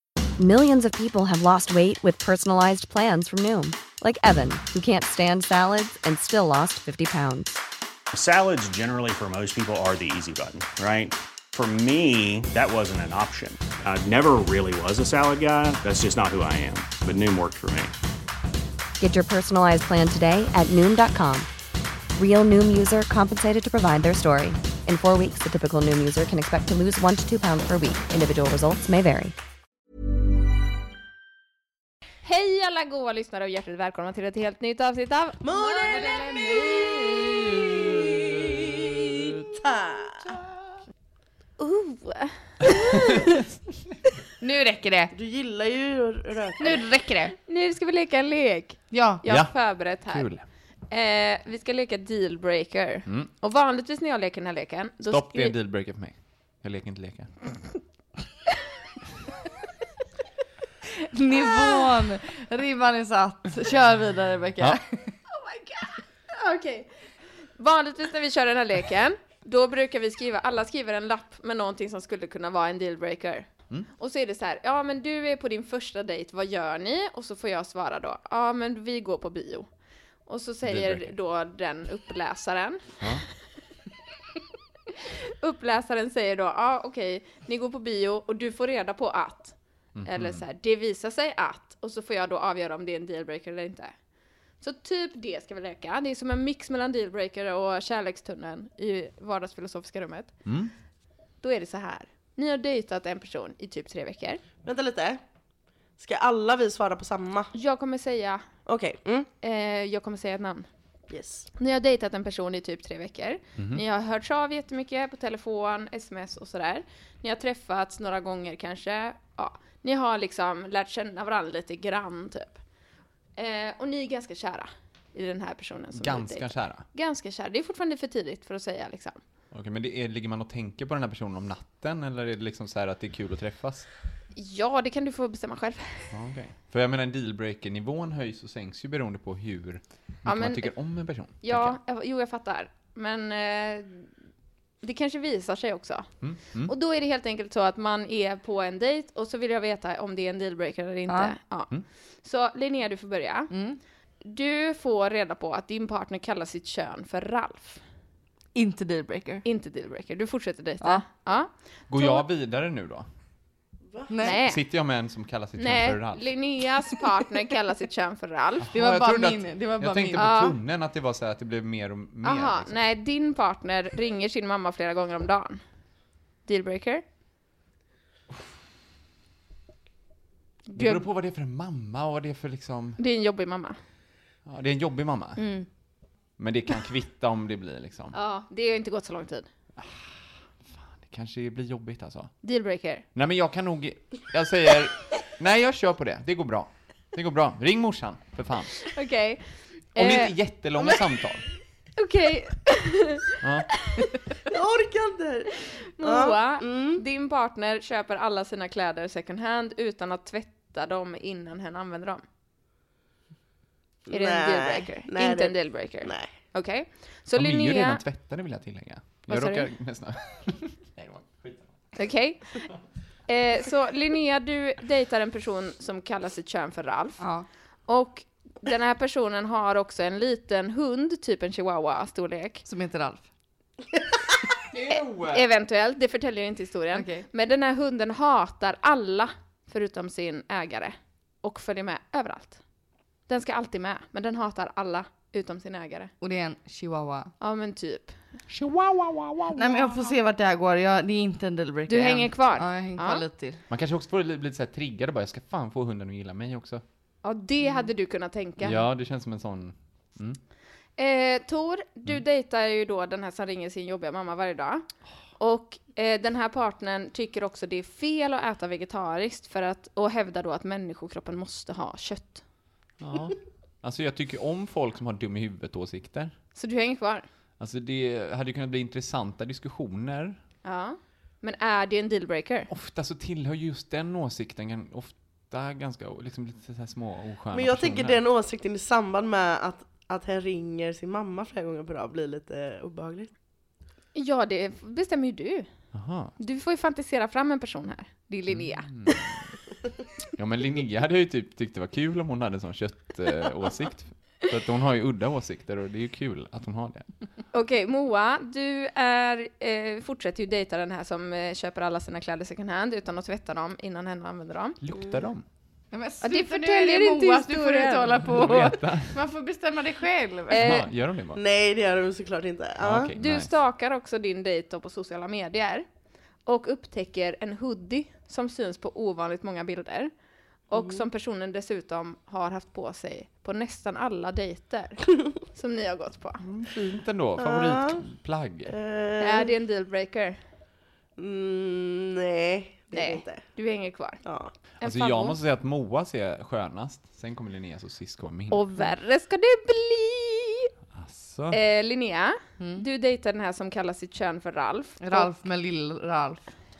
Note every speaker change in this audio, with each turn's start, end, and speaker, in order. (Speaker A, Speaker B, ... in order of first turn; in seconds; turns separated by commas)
Speaker A: 0.4-7.6, Speaker B: 8.1-17.9, Speaker A: 19.0-21.5, Speaker A: 22.1-29.4, Speaker C: 32.2-36.6, Speaker D: 35.4-40.4, Speaker C: 41.6-43.4, Speaker E: 44.4-45.1, Speaker D: 45.1-46.8, Speaker E: 46.6-47.3, Speaker C: 47.4-50.3, Speaker E: 48.9-49.2, Speaker F: 49.3-50.4, Speaker C: 50.9-55.5, Speaker F: 55.1-57.4, Speaker E: 61.0-65.1, Speaker C: 65.3-66.9, Speaker C: 67.6-79.7, Speaker C: 80.3-83.0, Speaker F: 80.7-81.1, Speaker C: 85.3-89.5, Speaker F: 90.0-90.4, Speaker C: 90.1-93.9, Speaker C: 94.6-100.3, Speaker F: 100.5-100.7, Speaker C: 101.4-104.4, Speaker D: 104.6-105.2, Speaker D: 106.0-107.5, Speaker C: 107.5-108.5, Speaker D: 108.7-109.3, Speaker C: 109.4-110.7, Speaker D: 111.1-111.5, Speaker C: 111.6-122.6, Speaker F: 113.6-113.8, Speaker C: 123.4-129.2, Speaker F: 126.0-126.8, Speaker F: 129.5-133.9, Speaker C: 134.3-136.1, Speaker F: 136.1-141.8, Speaker C: 140.2-140.7, Speaker C: 141.4-144.1, Speaker C: 144.8-146.1, Speaker F: 146.2-146.7, Speaker C: 146.7-151.7, Speaker E: 151.1-151.4, Speaker C: 152.2-153.5, Speaker E: 153.5-153.8, Speaker C: 154.2-157.8, Speaker E: 158.6-159.4, Speaker C: 159.4-162.2, Speaker F: 161.9-163.1, Speaker D: 163.9-164.2, Speaker E: 164.1-164.4, Speaker C: 164.2-164.6, Speaker F: 164.3-166.3, Speaker C: 165.6-168.7, Speaker F: 168.7-172.9, Speaker E: 168.7-170.3, Speaker C: 170.2-170.6, Speaker C: 172.2-175.6, Speaker C: 176.5-177.0, Speaker C: 180.7-181.1, Speaker F: 180.8-183.0, Speaker C: 183.0-183.8, Speaker F: 184.5-185.4, Speaker C: 185.4-185.7, Speaker F: 186.4-188.2, Speaker C: 188.1-189.5, Speaker F: 189.8-192.3, Speaker C: 192.4-193.0, Speaker F: 193.2-198.9, Speaker C: 198.8-199.4, Speaker C: 199.9-200.3, Speaker F: 200.0-201.4, Speaker C: 202.0-204.5, Speaker F: 203.4-203.7, Speaker D: 204.5-207.0, Speaker C: 206.0-212.2, Speaker D: 214.1-216.3, Speaker C: 214.1-218.0, Speaker F: 217.4-221.7, Speaker C: 219.3-219.7, Speaker C: 221.9-222.7, Speaker C: 223.3-227.2, Speaker E: 227.2-227.5, Speaker C: 227.9-232.6, Speaker E: 232.7-233.2, Speaker F: 234.7-235.4, Speaker C: 234.9-242.6, Speaker E: 236.9-237.3, Speaker C: 243.3-246.1, Speaker E: 246.2-247.3, Speaker C: 247.4-248.2, Speaker F: 248.5-249.8, Speaker E: 249.6-253.6, Speaker C: 251.9-253.2, Speaker F: 253.7-256.8, Speaker C: 257.2-258.9, Speaker F: 258.6-260.4, Speaker C: 261.0-264.9, Speaker C: 265.4-272.4, Speaker F: 273.0-276.3, Speaker C: 276.6-277.3, Speaker F: 277.6-280.4, Speaker C: 280.6-282.7, Speaker F: 282.7-288.2, Speaker D: 287.5-293.3, Speaker C: 294.1-295.7, Speaker F: 295.9-296.3, Speaker C: 296.4-299.4, Speaker F: 298.5-299.3, Speaker F: 300.4-307.1, Speaker C: 307.5-314.8, Speaker F: 314.8-315.4, Speaker E: 315.9-320.8, Speaker C: 316.2-318.2, Speaker F: 318.3-319.2, Speaker C: 320.5-320.9, Speaker F: 320.6-321.4, Speaker D: 321.4-323.1, Speaker F: 322.8-323.5, Speaker C: 323.2-325.9, Speaker C: 326.5-330.1, Speaker C: 330.7-336.4, Speaker D: 330.7-331.0, Speaker F: 336.4-338.8, Speaker D: 337.4-338.0, Speaker D: 338.7-339.5, Speaker C: 339.2-340.4, Speaker D: 341.2-343.5, Speaker C: 342.9-344.2, Speaker D: 344.2-344.5, Speaker C: 344.8-345.4, Speaker F: 344.8-348.6, Speaker C: 348.5-350.7, Speaker F: 350.9-351.6, Speaker C: 351.5-355.3, Speaker E: 352.6-352.9, Speaker E: 355.0-356.5